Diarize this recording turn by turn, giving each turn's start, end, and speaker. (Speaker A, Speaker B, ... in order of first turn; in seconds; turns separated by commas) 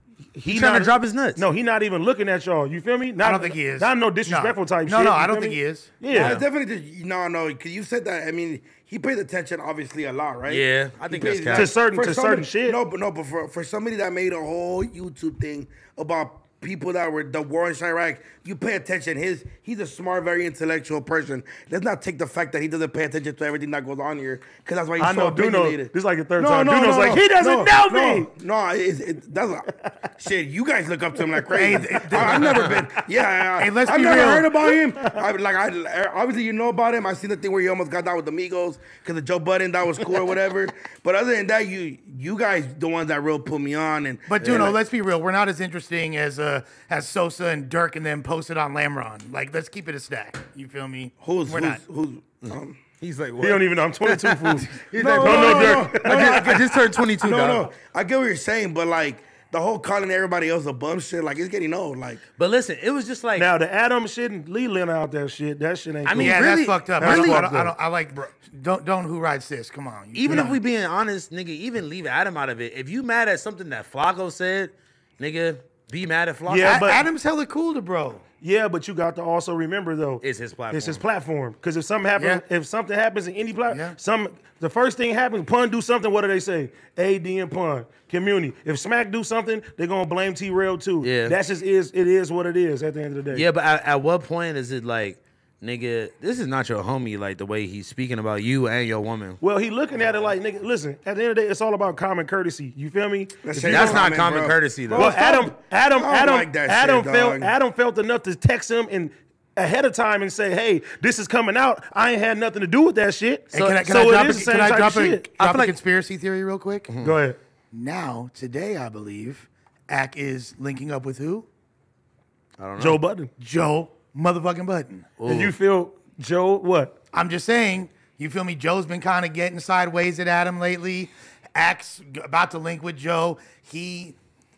Speaker A: 0.3-6.4, Speaker B: 0.5-1.4, Speaker C: 3.2-5.9, Speaker D: 6.1-44.8, Speaker B: 6.1-6.5, Speaker B: 10.5-11.8, Speaker A: 11.5-12.8, Speaker A: 25.0-28.3, Speaker C: 31.5-32.8, Speaker B: 32.3-32.7, Speaker C: 33.6-34.5, Speaker C: 44.3-51.8, Speaker B: 44.4-44.7, Speaker D: 51.2-52.8, Speaker B: 52.5-57.6, Speaker A: 53.4-56.5, Speaker D: 54.9-62.2, Speaker B: 62.4-63.5, Speaker A: 63.4-67.8, Speaker B: 66.0-67.5, Speaker C: 66.1-70.6, Speaker B: 70.1-77.0, Speaker A: 76.5-77.0, Speaker C: 76.6-78.2, Speaker A: 78.4-93.5, Speaker B: 80.2-81.0, Speaker C: 82.2-82.4, Speaker C: 83.7-84.0, Speaker B: 91.0-91.4, Speaker B: 93.3-99.4, Speaker A: 99.4-104.1, Speaker D: 103.4-107.5, Speaker B: 103.7-105.1, Speaker A: 104.9-115.3, Speaker C: 113.5-116.9, Speaker B: 113.5-113.8, Speaker B: 115.4-115.8, Speaker B: 116.9-117.2, Speaker A: 117.0-117.4, Speaker C: 117.7-121.5, Speaker B: 122.6-123.0, Speaker A: 122.8-123.3, Speaker C: 123.4-125.1, Speaker B: 125.2-125.5, Speaker A: 125.2-127.0, Speaker C: 127.1-134.2